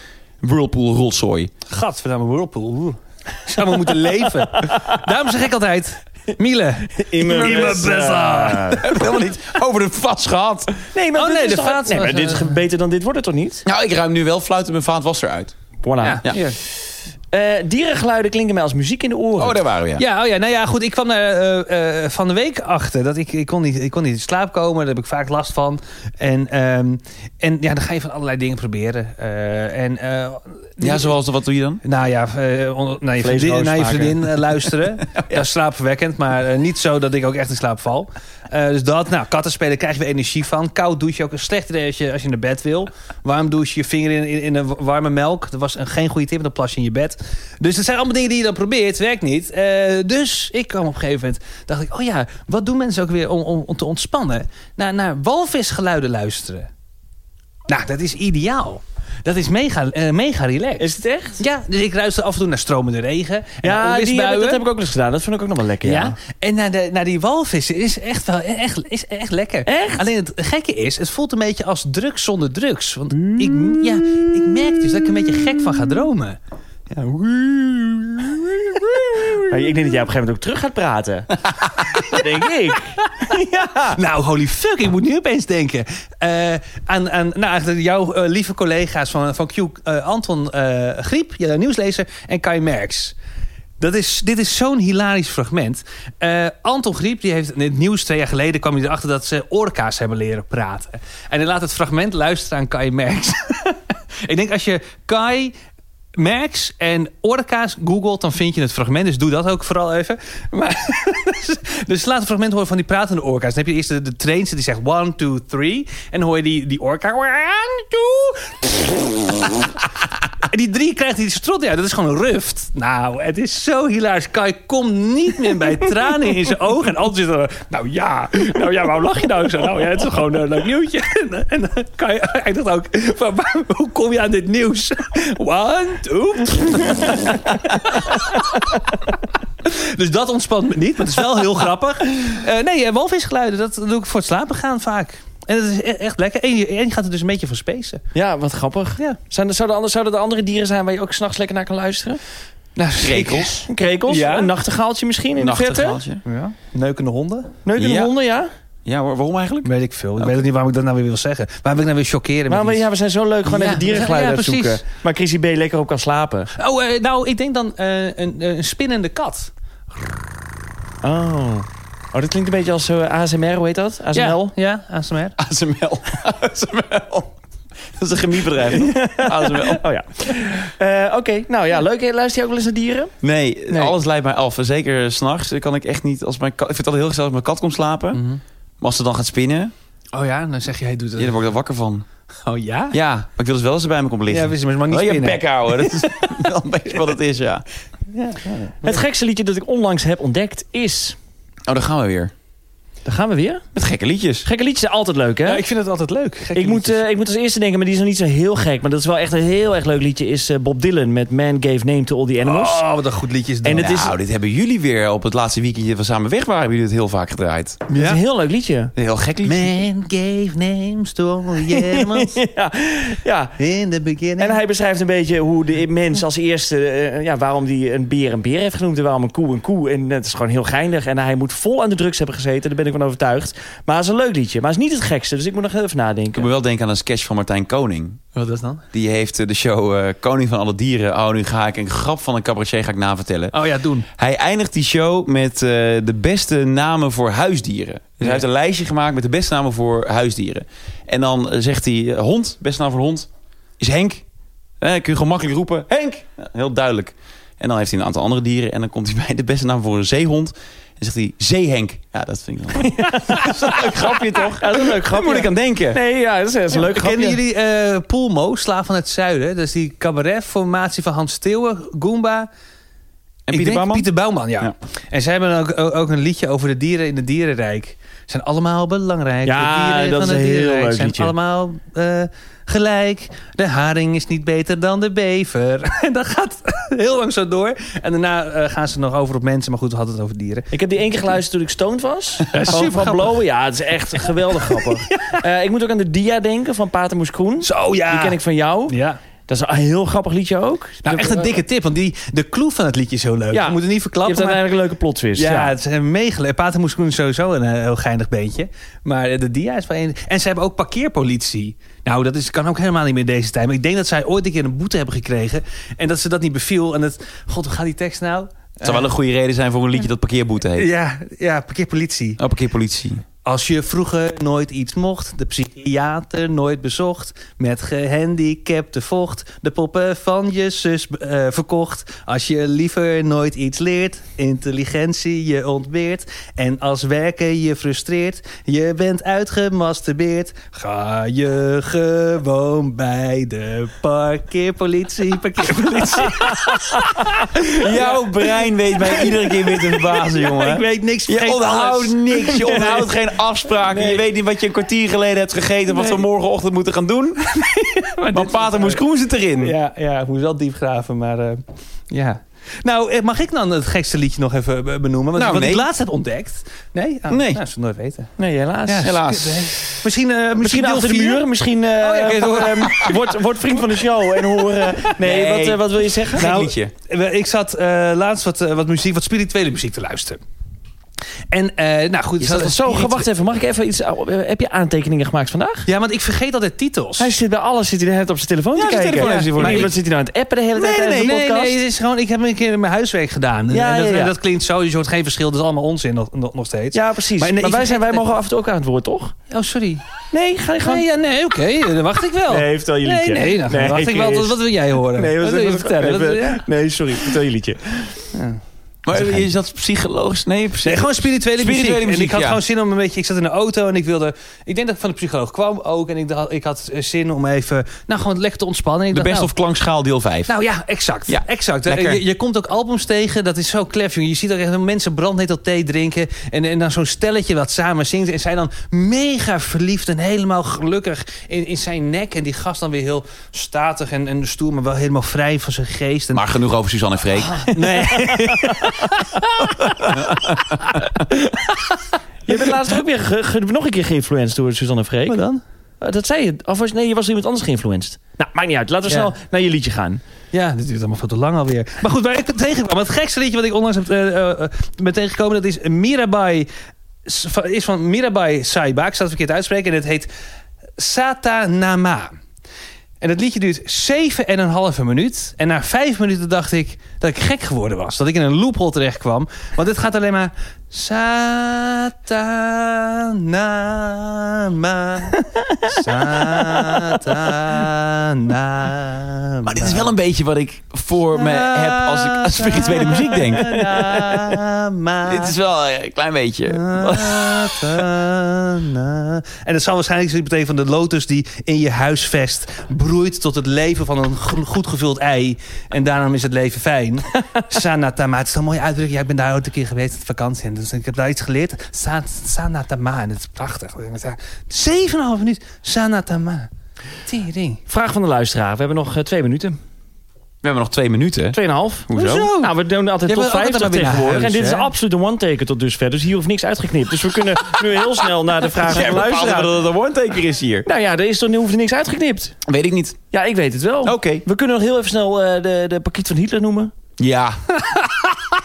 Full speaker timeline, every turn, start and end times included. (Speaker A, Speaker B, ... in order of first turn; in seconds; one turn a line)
Speaker A: 0.4-1.5
Speaker B: 1.7-8.8
Speaker C: 7.0-8.8
Speaker A: 7.2-8.1
Speaker A: 8.8-10.7
Speaker C: 10.9-13.6
Speaker B: 11.1-12.6
Speaker A: 13.7-15.5
Speaker C: 15.8-19.6
Speaker B: 16.0-16.6
Speaker A: 19.4-20.0
Speaker B: 20.0-31.1
Speaker A: 30.8-31.8
Speaker B: 31.8-56.7
Speaker C: 33.2-34.3
Speaker A: 35.1-35.4
Speaker B: 57.7-60.9
Speaker C: 60.8-61.4
Speaker B: 61.4-64.6
Speaker C: 63.6-66.2
Speaker B: 65.8-76.4
Speaker C: 69.7-70.1
Speaker C: 73.2-75.0
Speaker C: 78.3-84.0
Speaker B: 79.0-79.4
Speaker B: 82.1-82.5
Speaker B: 83.9-93.1
Speaker B: 93.8-105.5
Speaker B: 106.2-119.5
Speaker B: 120.4-139.0
Speaker B: 139.6-148.0
Speaker C: 148.1-152.2
Speaker B: 152.8-154.5
Speaker A: 153.0-153.5
Speaker C: 153.7-156.0
Speaker A: 155.4-156.2
Speaker B: 156.2-157.6
Speaker C: 157.6-158.5
Speaker A: 157.8-158.1
Speaker A: 158.8-160.3
Speaker B: 159.6-162.8
Speaker C: 162.5-166.5
Speaker B: 163.4-164.8
Speaker B: 166.6-169.5
Speaker C: 171.0-174.5
Speaker B: 174.1-175.4
Speaker A: 175.4-177.3
Speaker A: 177.9-179.8
Speaker C: 178.7-183.1
Speaker A: 183.2-188.2
Speaker B: 188.1-188.4
Speaker A: 188.8-189.7
Speaker B: 190.1-191.4
Speaker A: 191.2-192.0
Speaker B: 192.4-193.2
Speaker A: 192.9-197.6
Speaker B: 194.3-196.5
Speaker B: 198.1-199.0
Speaker C: 198.8-201.2
Speaker A: 201.7-202.3
Speaker C: 203.0-203.6
Speaker A: 203.7-204.5
Speaker C: 204.4-205.6
Speaker B: 205.4-207.0
Speaker C: 206.5-212.8
Speaker B: 212.4-214.0
Speaker C: 213.6-214.2
Speaker A: 213.7-217.8
Speaker C: 217.9-218.9
Speaker B: 217.9-218.2
Speaker A: 218.9-219.7
Speaker B: 219.4-222.3
Speaker C: 221.6-223.6
Speaker B: 223.6-224.6
Speaker C: 224.4-236.5
Speaker A: 236.3-238.2
Speaker B: 238.3-238.8
Speaker A: 238.9-243.5
Speaker B: 243.5-244.1
Speaker A: 244.2-253.3
Speaker A: 253.8-254.2
Speaker A: 254.8-266.0
Speaker C: 263.0-263.7
Speaker C: 264.5-267.4
Speaker B: 266.7-272.5
Speaker A: 273.5-274.1
Speaker B: 273.5-290.7
Speaker C: 279.4-281.3
Speaker C: 290.7-299.0
Speaker B: 292.5-293.4
Speaker B: 294.3-295.4
Speaker B: 297.6-299.2
Speaker C: 299.5-301.6
Speaker B: 301.0-304.7
Speaker C: 303.5-305.7
Speaker B: 305.3-319.1
Speaker A: 318.8-320.9
Speaker B: 320.7-322.4
Speaker A: 322.4-323.2
Speaker B: 323.4-354.2
Speaker A: 347.7-357.6
Speaker B: 355.9-356.2
Speaker B: 357.5-359.0
Speaker A: 358.3-359.7
Speaker B: 359.6-368.3
Speaker A: 365.4-365.9
Speaker A: 367.3-367.6
Speaker C: 368.4-369.2
Speaker B: 368.9-371.5
Speaker A: 369.0-369.7
Speaker C: 370.6-376.5
Speaker B: 372.0-373.4
Speaker A: 375.1-376.9
Speaker B: 376.4-380.4
Speaker B: 381.5-383.3
Speaker C: 382.4-385.9
Speaker B: 385.9-387.3
Speaker C: 387.2-391.8
Speaker A: 388.7-389.9
Speaker B: 389.1-389.9
Speaker A: 390.8-391.3
Speaker B: 391.0-398.2
Speaker C: 393.7-394.3
Speaker C: 396.9-399.3
Speaker B: 399.5-400.0
Speaker C: 400.3-401.1
Speaker B: 400.8-406.6
Speaker C: 402.5-408.2
Speaker B: 408.3-408.6
Speaker A: 409.1-412.6
Speaker B: 410.8-419.5
Speaker A: 419.1-420.5
Speaker B: 420.5-436.4
Speaker A: 421.3-422.2
Speaker A: 436.3-437.7
Speaker B: 437.4-440.1
Speaker C: 438.3-439.0
Speaker C: 442.4-445.4
Speaker B: 445.3-445.6
Speaker C: 446.0-450.2
Speaker B: 449.1-449.3
Speaker B: 450.5-456.7
Speaker B: 457.2-460.3
Speaker B: 461.0-462.4
Speaker B: 463.2-480.1
Speaker C: 475.5-477.2
Speaker A: 479.6-483.7
Speaker B: 481.3-485.5
Speaker C: 483.6-484.6
Speaker A: 485.3-488.1
Speaker B: 486.7-506.7
Speaker B: 507.2-507.8
Speaker C: 507.9-509.8
Speaker A: 510.6-512.5
Speaker C: 511.5-519.7
Speaker B: 512.2-512.7
Speaker B: 513.2-514.9
Speaker A: 518.9-520.9
Speaker C: 520.9-522.5
Speaker A: 522.7-523.2
Speaker C: 523.3-526.9
Speaker A: 524.0-524.4
Speaker A: 527.2-527.6
Speaker B: 527.8-528.4